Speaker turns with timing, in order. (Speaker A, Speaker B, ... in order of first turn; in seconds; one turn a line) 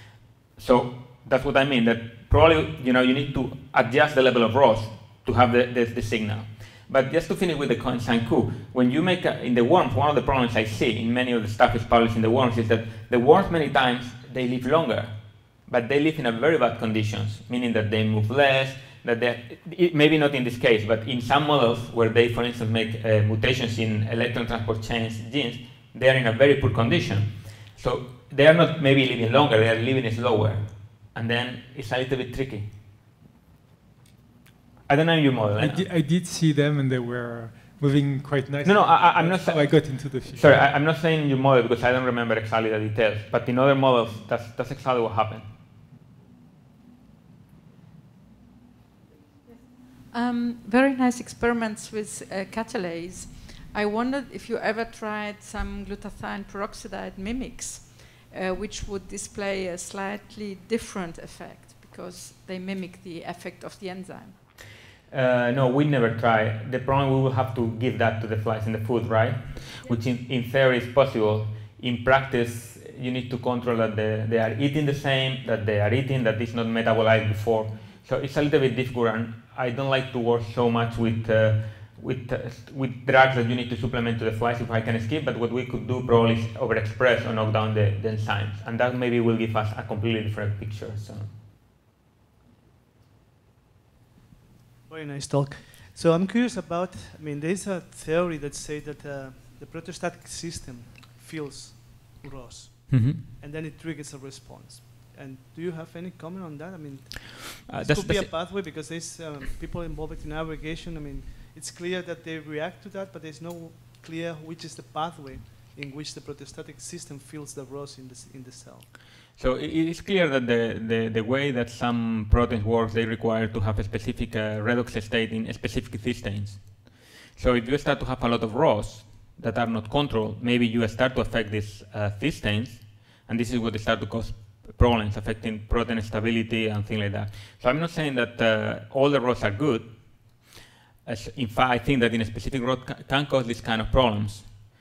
Speaker A: 0.6-15.1
Speaker A: 15.7-32.7
Speaker A: 34.9-35.8
Speaker B: 35.5-40.8
Speaker A: 38.6-45.5
Speaker C: 49.5-64.3
Speaker A: 65.1-91.3
Speaker D: 94.9-118.9
Speaker A: 102.9-103.2
Speaker A: 107.7-108.3
Speaker A: 119.4-139.9
Speaker A: 141.0-144.5